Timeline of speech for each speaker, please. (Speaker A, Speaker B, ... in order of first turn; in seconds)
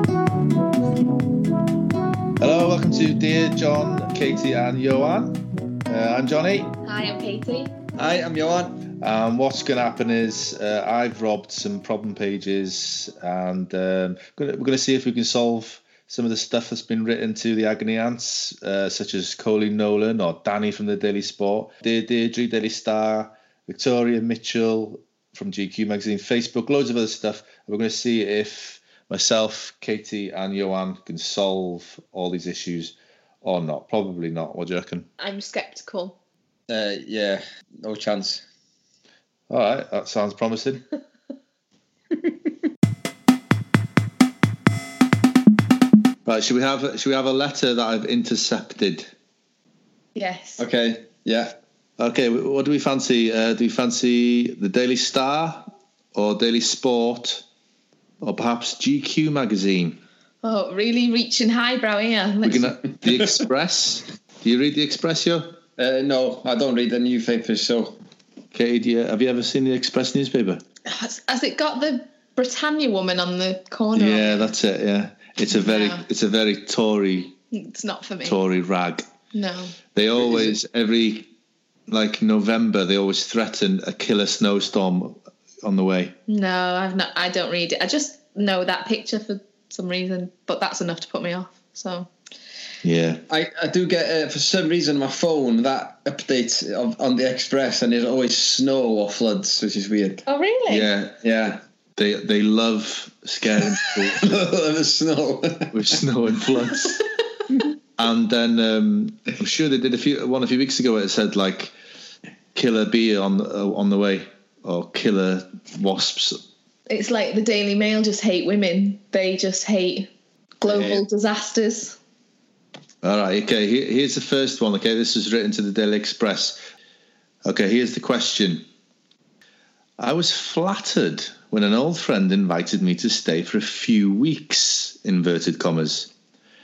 Speaker A: 2.4-6.7, 9.0-35.1, 39.5-40.8, 46.2-49.1, 52.0-57.4, 58.2-60.0, 62.4-65.6, 68.5-70.6, 73.9-77.3, 78.2-79.0, 79.9-81.3, 81.9-86.1, 92.8-93.2, 100.7-101.2, 102.0-104.3, 105.7-107.0, 108.0-111.7, 112.5-116.4, 120.7-121.0, 123.0-126.6, 127.4-128.6, 130.0-136.1
Speaker B: 6.8-7.8, 35.2-36.1, 50.1-50.6, 60.4-62.8, 70.8-74.5, 75.5-76.0, 77.5-78.4, 79.3-79.7, 86.3-92.1, 100.3-100.9, 116.9-120.1, 120.6-122.0
Speaker C: 8.0-8.8, 36.7-38.4, 50.6-51.5, 65.8-68.0, 80.2-80.5, 93.3-100.2, 101.2-101.6, 103.8-106.0